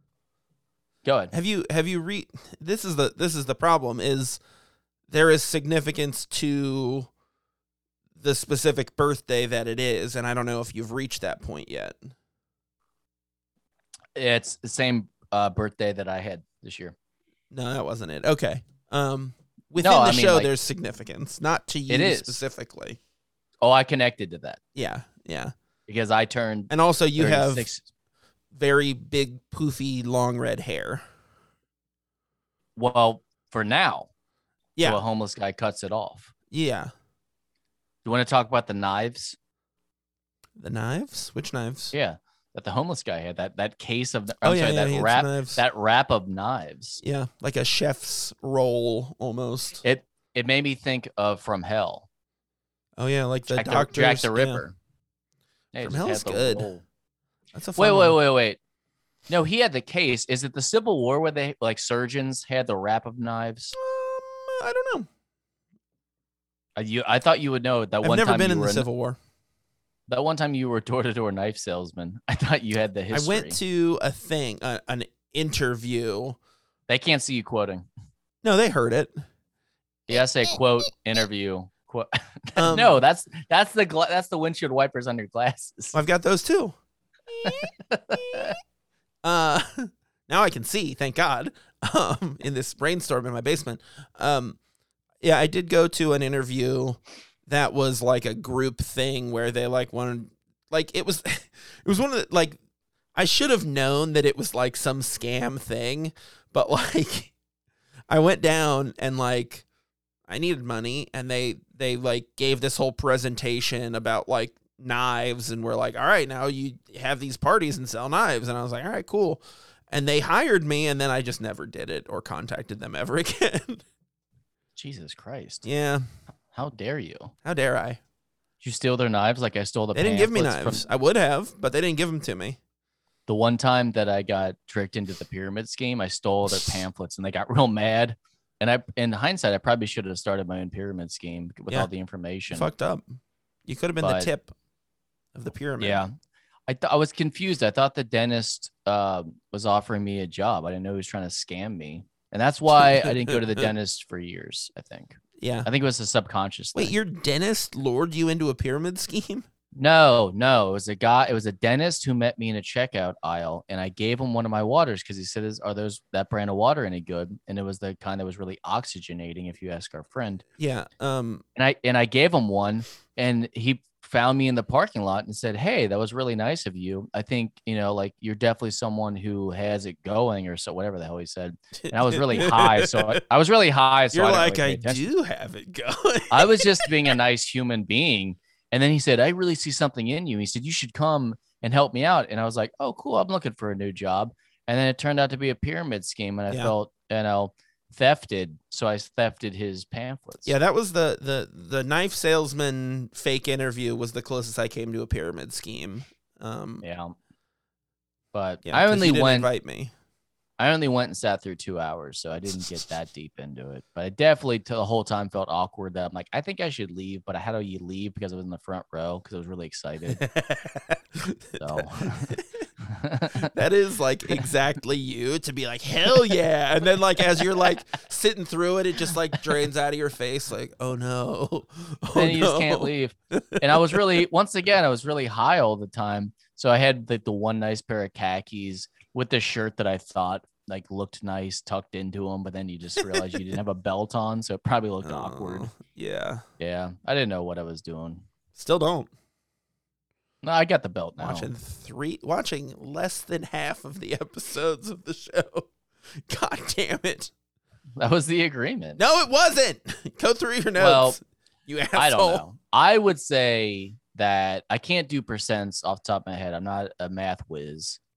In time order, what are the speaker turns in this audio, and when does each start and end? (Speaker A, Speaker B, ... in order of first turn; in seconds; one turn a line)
Speaker A: 1.0-1.3
Speaker B: 1.3-4.4
Speaker B: 5.1-7.1
Speaker B: 8.2-12.1
Speaker A: 14.2-16.9
Speaker B: 17.5-23.0
Speaker A: 19.8-20.5
Speaker A: 21.9-22.4
Speaker A: 23.6-24.6
Speaker B: 24.8-25.5
Speaker A: 25.9-27.9
Speaker B: 26.7-27.7
Speaker B: 28.5-31.0
Speaker A: 32.8-34.1
Speaker B: 34.8-35.0
Speaker A: 34.8-36.3
Speaker B: 36.5-36.9
Speaker A: 38.0-39.4
Speaker B: 40.6-41.9
Speaker A: 41.9-47.0
Speaker B: 44.4-45.6
Speaker B: 47.0-49.8
Speaker A: 49.8-52.1
Speaker B: 53.0-54.6
Speaker A: 53.5-54.8
Speaker A: 55.7-56.9
Speaker B: 55.8-56.7
Speaker B: 57.5-58.2
Speaker A: 57.8-58.6
Speaker A: 59.3-63.7
Speaker B: 63.7-65.1
Speaker A: 66.8-68.9
Speaker B: 68.0-69.2
Speaker A: 70.1-73.6
Speaker B: 73.1-76.4
Speaker A: 76.9-77.9
Speaker B: 78.4-79.1
Speaker A: 80.1-86.0
Speaker B: 82.6-83.0
Speaker B: 85.9-86.8
Speaker A: 87.4-88.6
Speaker B: 89.2-94.6
Speaker B: 95.2-102.6
Speaker B: 103.2-107.3
Speaker B: 108.1-109.7
Speaker B: 110.3-123.8
Speaker A: 124.8-125.6
Speaker B: 125.6-126.1
Speaker A: 126.5-127.3
Speaker B: 127.5-128.0
Speaker A: 128.6-130.8
Speaker B: 129.9-132.6
Speaker A: 133.3-142.7
Speaker B: 142.5-144.5
Speaker A: 144.0-144.3
Speaker B: 145.3-146.0
Speaker A: 145.8-146.1
Speaker A: 146.7-156.9
Speaker B: 152.8-153.7
Speaker B: 155.4-155.7
Speaker B: 156.8-159.5
Speaker A: 159.8-170.4
Speaker B: 170.6-171.4
Speaker A: 171.6-185.1
Speaker B: 181.8-183.2
Speaker B: 184.1-186.9
Speaker A: 186.3-200.5
Speaker B: 200.5-206.8
Speaker A: 206.8-207.2
Speaker A: 208.3-209.5
Speaker B: 208.7-209.9
Speaker A: 210.6-220.2
Speaker B: 220.1-222.6
Speaker A: 221.6-223.5
Speaker B: 223.4-234.0
Speaker A: 232.2-245.7
Speaker B: 245.0-246.4
Speaker A: 246.6-248.2
Speaker B: 248.6-249.1
Speaker A: 250.4-251.5
Speaker B: 251.2-255.7
Speaker B: 256.3-257.3
Speaker A: 258.0-259.0
Speaker B: 259.0-262.4
Speaker A: 260.8-261.2
Speaker A: 261.9-268.0